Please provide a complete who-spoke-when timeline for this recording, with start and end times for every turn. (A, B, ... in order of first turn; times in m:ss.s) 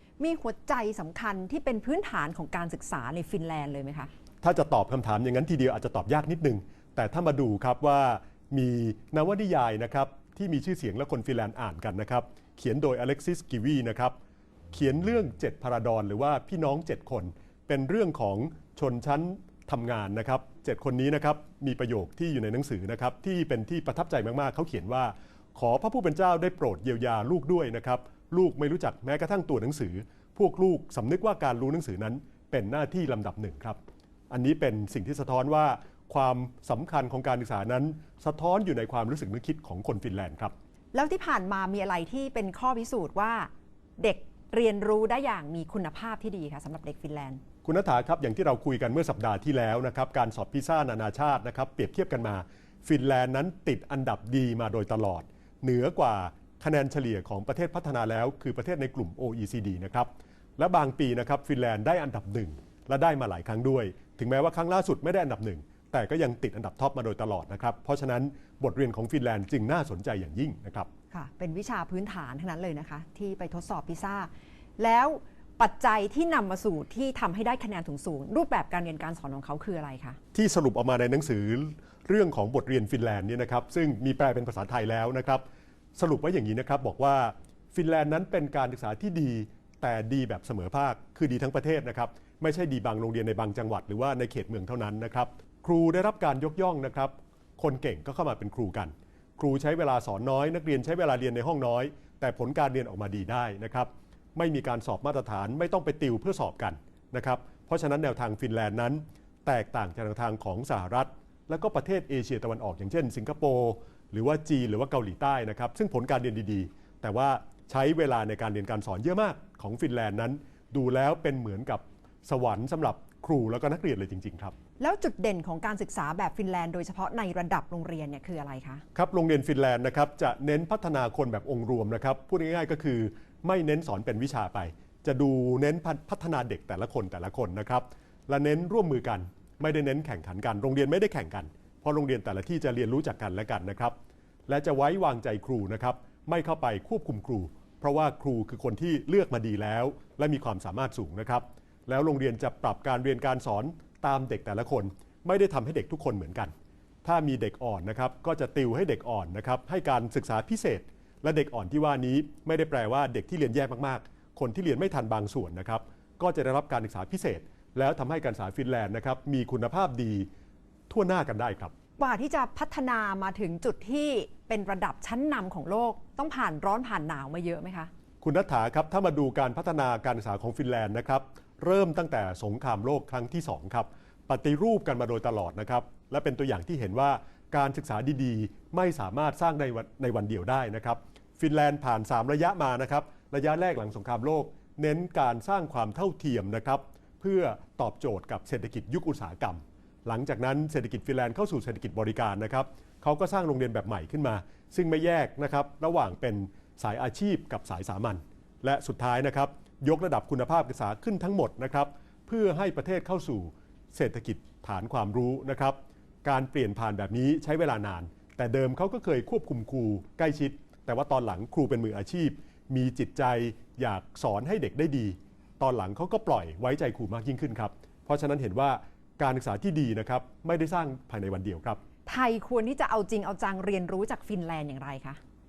0:00.2-0:04.1 A
0:04.4-0:14.1 B
0:14.7-0:33.8 B
0:34.3-0:40.5 B
0:40.9-0:47.4 A
0:47.6-1:10.9 B
1:11.1-1:20.2 A
1:20.3-1:25.4 B
1:25.9-2:04.5 B
2:04.8-2:08.8 A
2:08.9-2:23.9 B
2:24.5-2:36.5 B
2:37.0-2:50.3 B
2:50.9-2:51.7 B
2:52.0-2:57.9 A
2:58.2-3:51.8 B
3:52.0-3:55.2 A